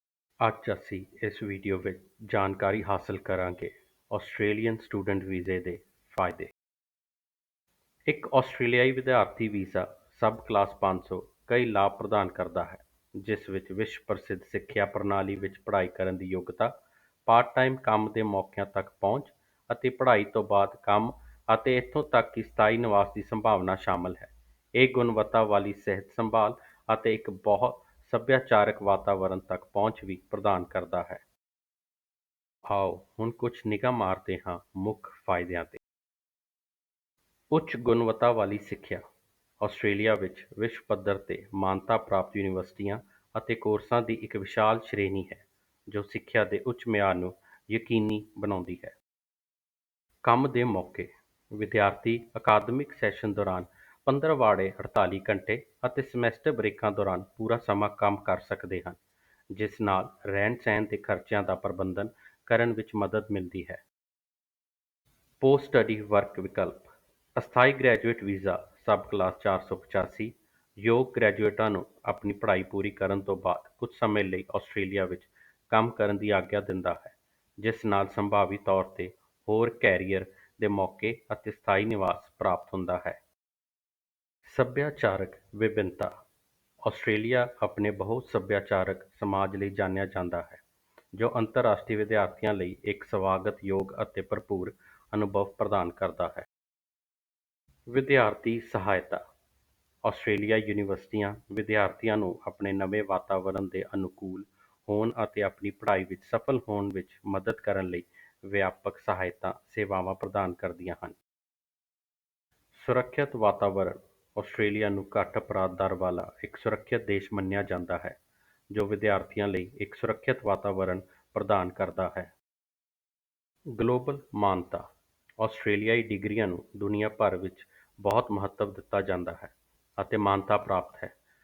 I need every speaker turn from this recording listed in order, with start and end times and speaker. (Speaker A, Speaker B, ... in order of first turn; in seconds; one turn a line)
Speaker A: 0.4-6.5
Speaker A: 8.1-16.7
Speaker A: 17.3-31.2
Speaker A: 32.7-35.8
Speaker A: 37.5-39.0
Speaker A: 39.6-49.0
Speaker A: 50.2-59.0
Speaker A: 59.5-63.8
Speaker A: 65.4-83.2
Speaker A: 84.5-86.1
Speaker A: 86.8-90.6
Speaker A: 91.1-96.5
Speaker A: 97.9-99.2
Speaker A: 100.0-111.2
Speaker A: 112.7-118.2
Speaker A: 118.7-122.3
Speaker A: 123.7-124.9
Speaker A: 125.4-131.1